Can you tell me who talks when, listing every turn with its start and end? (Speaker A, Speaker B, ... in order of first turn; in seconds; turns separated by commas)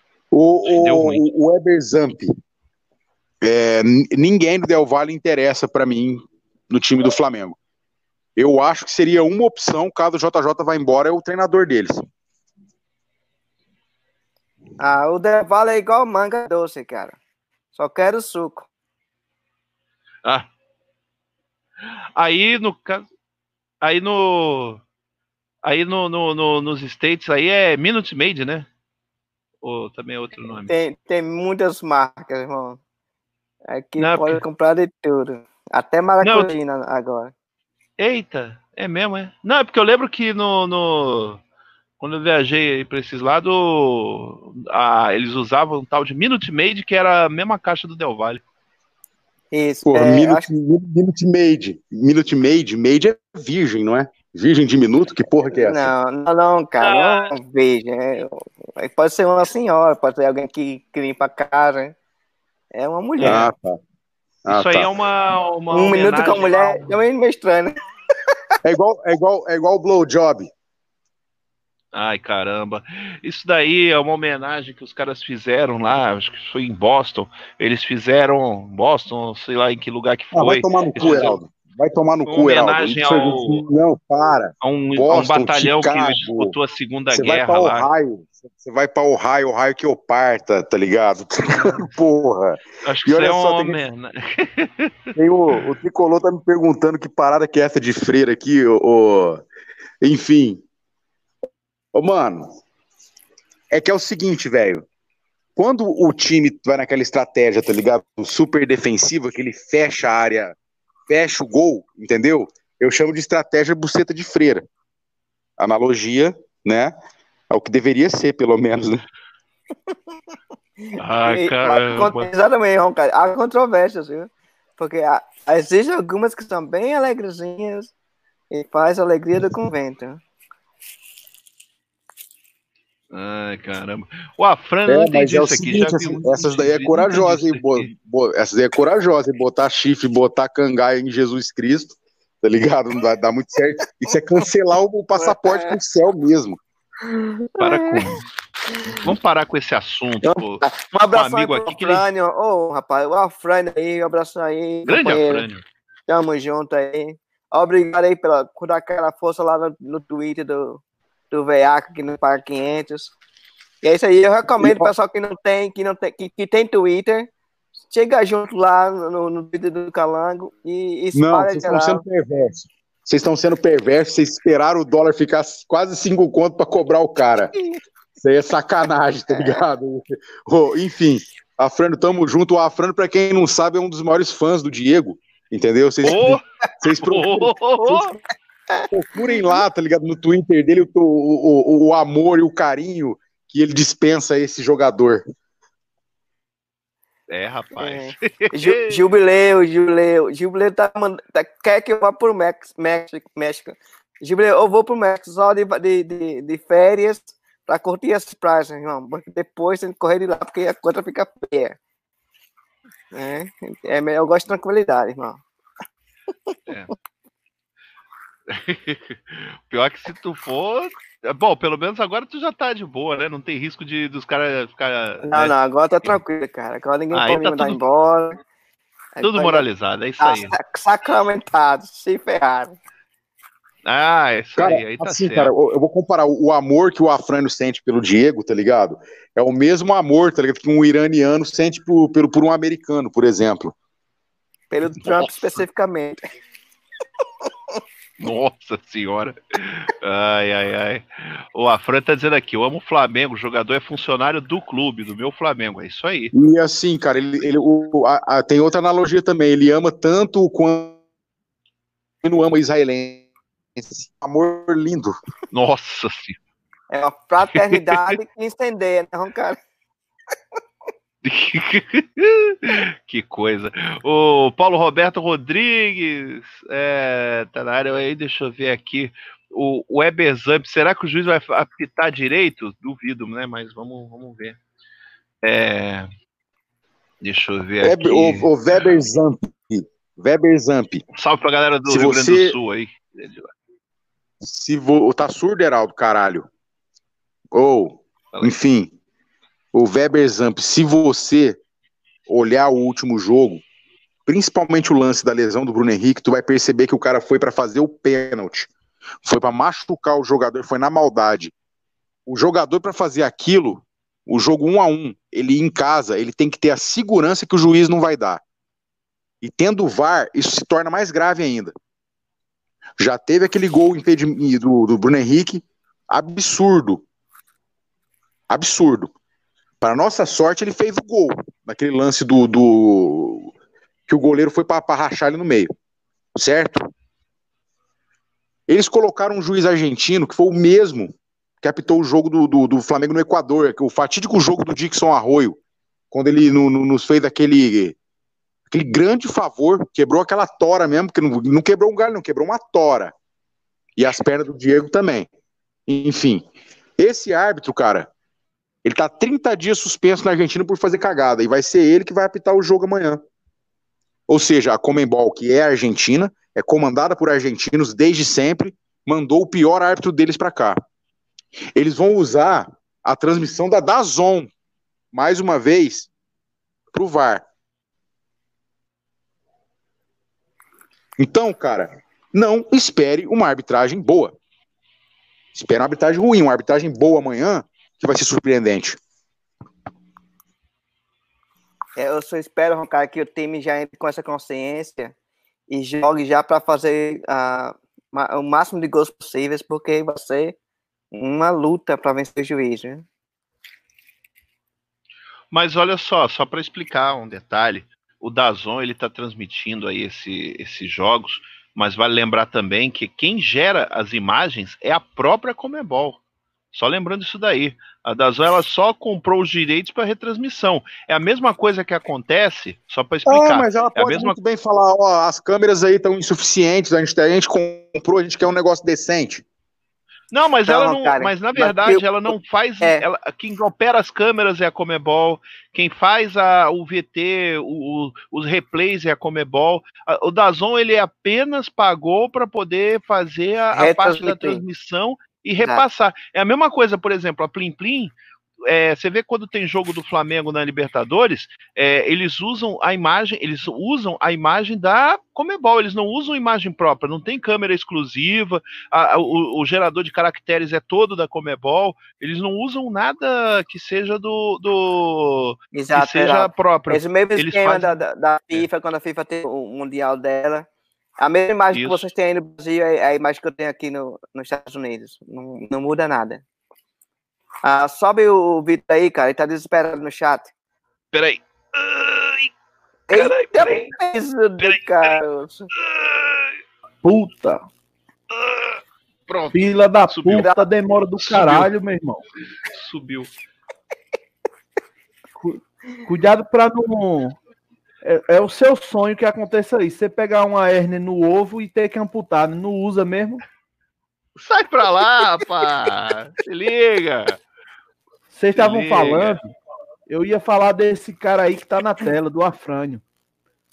Speaker A: 0.3-2.3, Speaker B: 0.7-1.2, Speaker A: 3.4-7.5, Speaker A: 8.3-12.1, Speaker C: 14.8-17.2, Speaker C: 17.7-18.7, Speaker B: 21.9-23.0, Speaker B: 23.8-24.8, Speaker B: 25.6-28.7, Speaker B: 29.6-30.7, Speaker C: 30.7-32.8, Speaker C: 33.7-37.3, Speaker B: 34.0-34.4, Speaker B: 36.2-36.5, Speaker B: 38.0-41.4, Speaker B: 42.0-48.4, Speaker C: 49.5-50.5, Speaker A: 49.9-55.9, Speaker C: 55.5-61.9, Speaker B: 56.8-57.3, Speaker C: 62.7-63.4, Speaker B: 63.2-63.5, Speaker A: 63.2-63.8, Speaker A: 64.4-64.9, Speaker B: 64.5-67.0, Speaker C: 65.7-67.8, Speaker A: 68.6-70.5, Speaker B: 71.9-81.4, Speaker A: 80.3-86.5, Speaker B: 82.2-83.7, Speaker B: 84.6-87.9, Speaker A: 87.1-93.8, Speaker B: 91.6-91.8, Speaker B: 92.8-95.1, Speaker A: 95.2-99.4, Speaker A: 100.0-100.6, Speaker A: 101.9-102.5, Speaker A: 103.7-104.8, Speaker A: 105.5-110.5, Speaker A: 111.1-114.7, Speaker A: 115.6-116.9, Speaker A: 117.5-119.0, Speaker C: 120.8-127.9, Speaker B: 121.0-122.3, Speaker C: 128.5-130.2, Speaker B: 133.1-137.9, Speaker A: 134.8-146.6, Speaker C: 145.2-145.8, Speaker C: 147.0-148.2, Speaker B: 147.6-148.2, Speaker B: 148.9-152.1, Speaker C: 150.2-155.4, Speaker B: 154.9-155.6, Speaker C: 156.1-163.1, Speaker C: 163.8-167.3, Speaker A: 164.6-164.9, Speaker C: 167.9-172.0, Speaker A: 171.1-177.5, Speaker A: 178.2-187.6, Speaker C: 179.3-179.6, Speaker B: 186.0-186.4, Speaker B: 187.0-188.1, Speaker C: 187.8-188.1, Speaker C: 188.7-189.6, Speaker A: 188.9-195.2, Speaker B: 197.3-199.0, Speaker C: 197.8-211.8, Speaker C: 213.1-215.4, Speaker B: 218.5-226.2, Speaker C: 225.2-228.4, Speaker B: 227.1-227.8, Speaker C: 229.2-229.6, Speaker B: 229.2-230.6, Speaker C: 230.2-232.7, Speaker B: 233.8-235.5, Speaker A: 234.6-243.7, Speaker C: 244.7-246.2, Speaker B: 248.2-256.3, Speaker A: 256.3-260.9, Speaker A: 262.2-263.2, Speaker A: 263.7-265.1, Speaker B: 265.5-266.4, Speaker C: 266.9-269.6, Speaker B: 267.5-268.2, Speaker B: 271.2-284.6, Speaker B: 285.4-286.1, Speaker B: 287.2-288.5, Speaker A: 287.8-291.0, Speaker B: 291.1-293.5, Speaker A: 291.9-292.6, Speaker A: 294.4-296.5, Speaker A: 297.5-298.9, Speaker A: 299.7-301.6, Speaker A: 302.3-303.6, Speaker A: 304.2-308.7, Speaker A: 309.2-311.5, Speaker A: 312.3-318.4, Speaker A: 319.4-321.7, Speaker A: 323.0-327.0, Speaker A: 328.5-329.1, Speaker A: 329.8-333.5, Speaker A: 334.1-335.7, Speaker A: 336.4-336.9, Speaker A: 338.7-345.6, Speaker A: 346.1-347.9, Speaker A: 348.7-353.1, Speaker A: 354.0-355.3, Speaker A: 355.9-356.4, Speaker A: 357.0-358.1, Speaker A: 358.8-363.2, Speaker A: 364.3-370.8, Speaker A: 371.8-374.5, Speaker A: 375.1-376.1, Speaker A: 376.9-377.4, Speaker A: 381.2-384.3, Speaker A: 385.5-389.0, Speaker C: 391.9-395.1, Speaker C: 395.7-400.6, Speaker C: 401.1-403.0, Speaker B: 405.5-416.2, Speaker B: 416.7-424.4, Speaker A: 423.2-429.4, Speaker B: 430.3-448.1, Speaker C: 430.7-432.0, Speaker C: 443.7-444.6, Speaker B: 448.6-468.0, Speaker C: 465.7-470.7, Speaker C: 471.2-476.4, Speaker B: 471.7-472.1, Speaker C: 477.6-480.5, Speaker B: 481.1-482.5, Speaker C: 483.1-485.7, Speaker B: 483.1-483.9, Speaker B: 484.6-485.1, Speaker B: 485.8-486.5, Speaker D: 487.0-487.6, Speaker B: 488.3-489.5, Speaker D: 489.5-492.2, Speaker B: 490.1-490.5, Speaker C: 490.3-490.6, Speaker B: 491.2-491.7, Speaker B: 492.7-493.3, Speaker D: 495.4-497.4, Speaker D: 498.0-503.4, Speaker B: 504.4-507.4, Speaker D: 508.3-509.5, Speaker B: 508.5-509.4, Speaker D: 510.1-513.0